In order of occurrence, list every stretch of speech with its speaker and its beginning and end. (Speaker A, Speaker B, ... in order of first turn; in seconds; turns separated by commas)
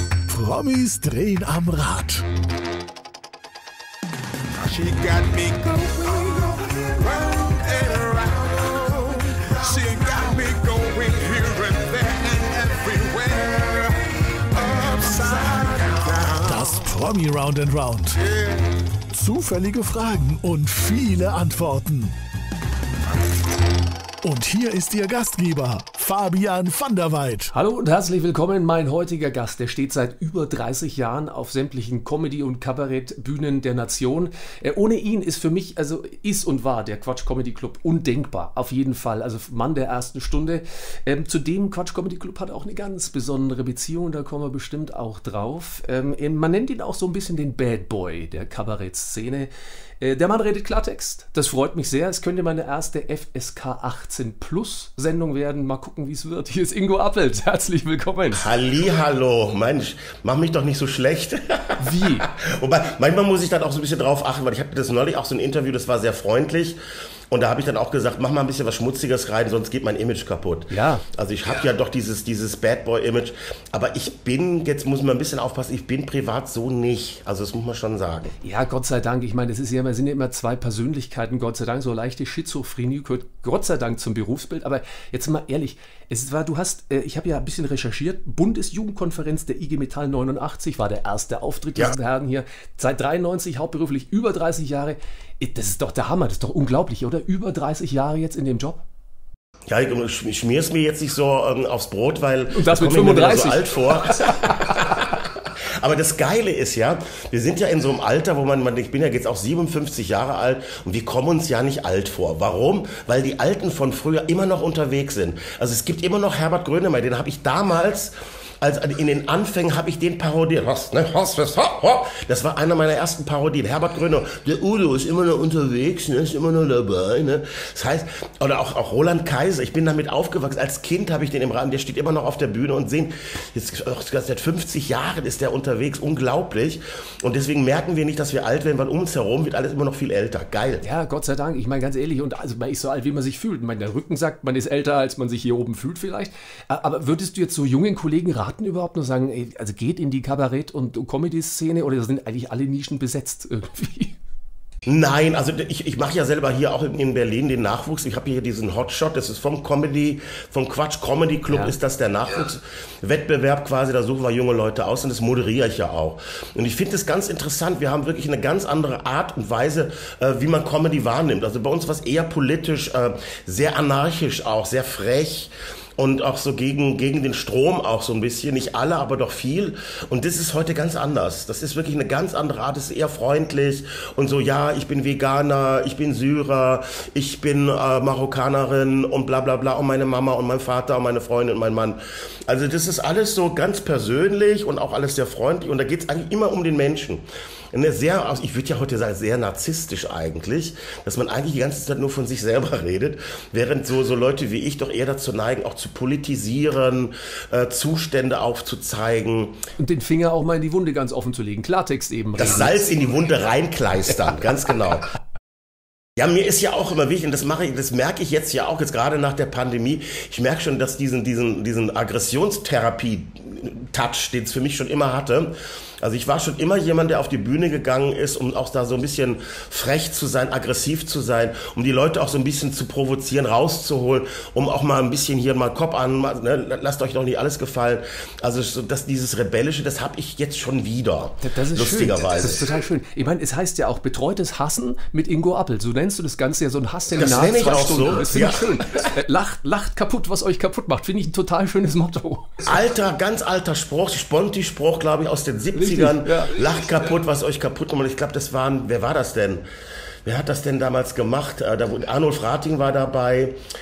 Speaker A: 0.3-2.2, Speaker B: 4.6-16.8, Speaker A: 16.4-18.2, Speaker B: 18.2-18.8, Speaker A: 19.1-22.1, Speaker A: 24.2-27.5, Speaker C: 27.5-58.5, Speaker D: 58.3-66.8, Speaker C: 61.8-62.3, Speaker D: 67.3-78.3, Speaker C: 70.7-71.0, Speaker C: 78.4-98.8, Speaker D: 99.7-140.8, Speaker C: 102.5-104.6, Speaker C: 140.8-154.2, Speaker D: 154.8-209.6, Speaker C: 161.5-161.7, Speaker C: 209.8-212.8, Speaker D: 212.3-215.1, Speaker D: 216.2-242.6, Speaker C: 241.4-252.6, Speaker D: 247.1-249.1, Speaker D: 252.6-259.6, Speaker C: 255.7-256.6, Speaker D: 260.2-263.6